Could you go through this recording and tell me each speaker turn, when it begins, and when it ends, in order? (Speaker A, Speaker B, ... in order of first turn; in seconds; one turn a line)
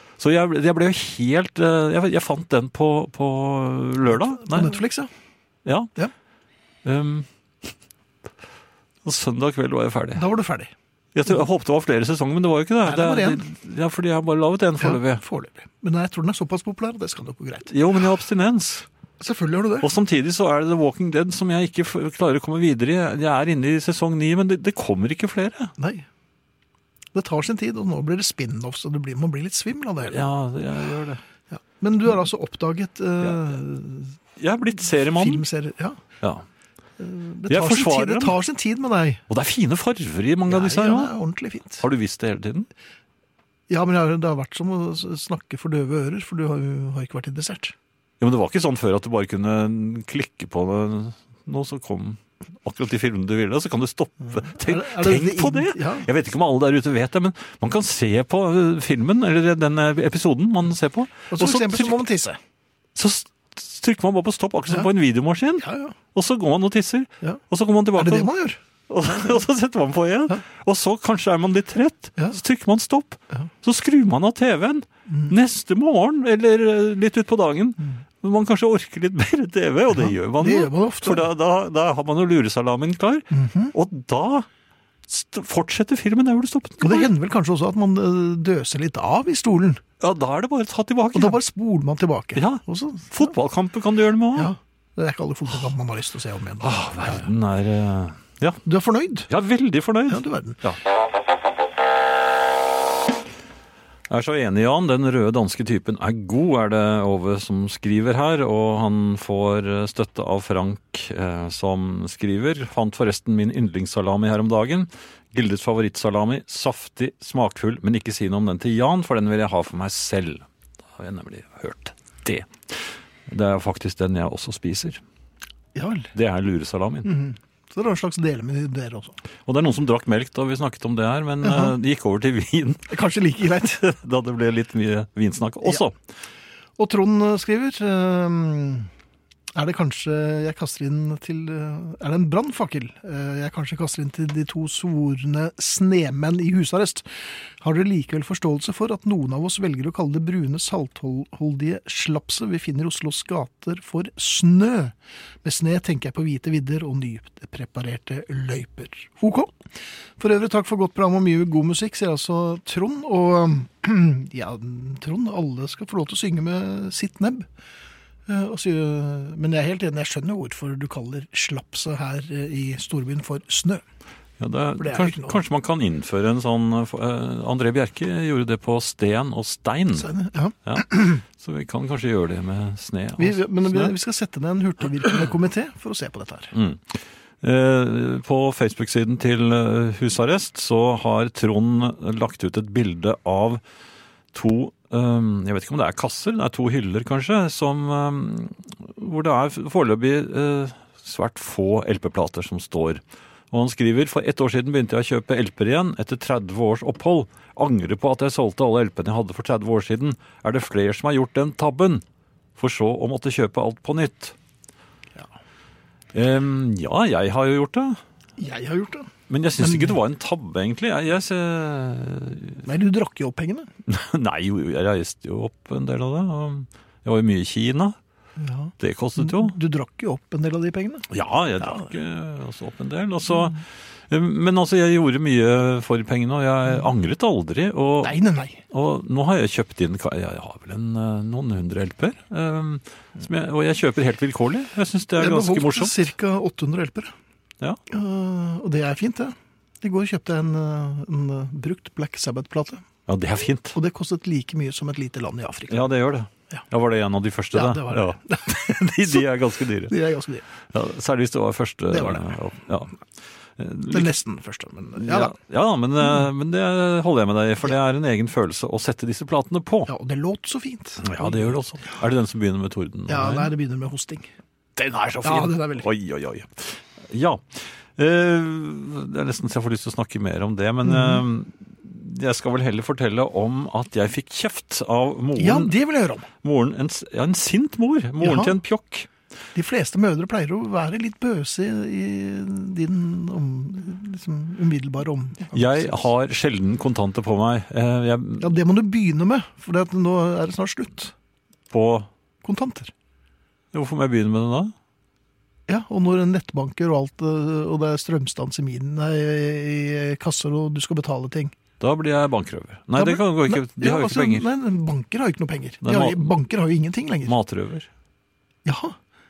Speaker A: 0.2-4.8
Speaker B: 4.2-5.1
Speaker A: 5.6-5.9
Speaker A: 6.8-7.7
Speaker A: 9.0-10.2
Speaker B: 10.1-10.7
Speaker A: 11.1-15.2
Speaker B: 12.8-13.4
Speaker B: 14.8-17.7
Speaker A: 17.7-18.9
Speaker B: 19.2-19.9
Speaker A: 19.8-25.7
Speaker B: 25.8-26.0
Speaker B: 27.1-30.2
Speaker A: 30.0-31.2
Speaker B: 31.5-34.2
Speaker A: 33.2-33.5
Speaker A: 34.4-35.4
Speaker B: 35.0-36.0
Speaker A: 36.2-36.5
Speaker B: 37.0-39.2
Speaker A: 37.5-38.4
Speaker A: 39.3-41.1
Speaker B: 40.5-41.8
Speaker A: 41.8-42.7
Speaker B: 43.7-47.7
Speaker A: 48.2-62.0
Speaker B: 54.3-56.1
Speaker B: 61.3-62.4
Speaker A: 62.9-68.3
Speaker B: 65.6-65.9
Speaker B: 68.0-68.6
Speaker A: 68.9-84.5
Speaker B: 75.1-75.3
Speaker B: 80.3-81.3
Speaker B: 83.3-83.7
Speaker A: 85.1-87.1
Speaker B: 86.8-89.8
Speaker A: 90.0-91.4
Speaker B: 91.1-93.3
Speaker A: 92.3-94.5
Speaker B: 94.3-97.3
Speaker A: 96.6-98.6
Speaker B: 98.6-99.3
Speaker A: 99.3-100.8
Speaker B: 100.1-100.6
Speaker A: 104.1-125.0
Speaker B: 125.7-126.1
Speaker A: 126.1-127.1
Speaker B: 127.0-129.2
Speaker A: 129.5-132.9
Speaker B: 131.4-131.7
Speaker B: 132.9-133.8
Speaker A: 133.6-135.9
Speaker B: 136.8-138.9
Speaker B: 139.5-159.6
Speaker B: 160.2-167.5
Speaker B: 168.3-173.8
Speaker A: 174.4-180.1
Speaker B: 174.8-175.4
Speaker B: 179.9-181.2
Speaker A: 180.7-183.9
Speaker B: 183.2-186.5
Speaker A: 186.5-193.6
Speaker A: 194.3-212.0
Speaker A: 212.6-214.3
Speaker A: 216.1-218.0
Speaker B: 218.4-220.0
Speaker A: 219.3-222.6
Speaker B: 222.6-223.7
Speaker A: 223.9-227.9
Speaker B: 228.4-231.1
Speaker A: 228.8-229.5
Speaker A: 231.1-238.2
Speaker B: 231.6-231.9
Speaker B: 238.0-238.6
Speaker A: 238.7-246.1
Speaker B: 245.2-247.1
Speaker B: 247.9-252.8
Speaker A: 253.1-253.8
Speaker B: 253.7-255.9
Speaker A: 255.7-259.9
Speaker B: 257.5-259.3
Speaker B: 259.9-260.4
Speaker A: 260.7-262.9
Speaker B: 261.9-262.3
Speaker A: 263.6-264.1
Speaker B: 263.9-265.3
Speaker A: 264.9-269.9
Speaker B: 269.9-271.5
Speaker A: 271.0-273.5
Speaker B: 273.1-274.3
Speaker A: 274.8-285.7
Speaker B: 275.2-275.9
Speaker B: 280.8-281.2
Speaker B: 285.4-286.3
Speaker A: 286.3-289.1
Speaker B: 288.2-288.5
Speaker B: 289.5-296.1
Speaker A: 295.5-298.5
Speaker B: 298.4-301.1
Speaker A: 301.7-302.1
Speaker B: 302.4-302.9
Speaker A: 303.7-304.7
Speaker B: 305.7-311.5
Speaker A: 311.8-314.5
Speaker B: 312.9-317.3
Speaker A: 315.8-316.3
Speaker A: 317.2-317.9
Speaker B: 318.6-319.0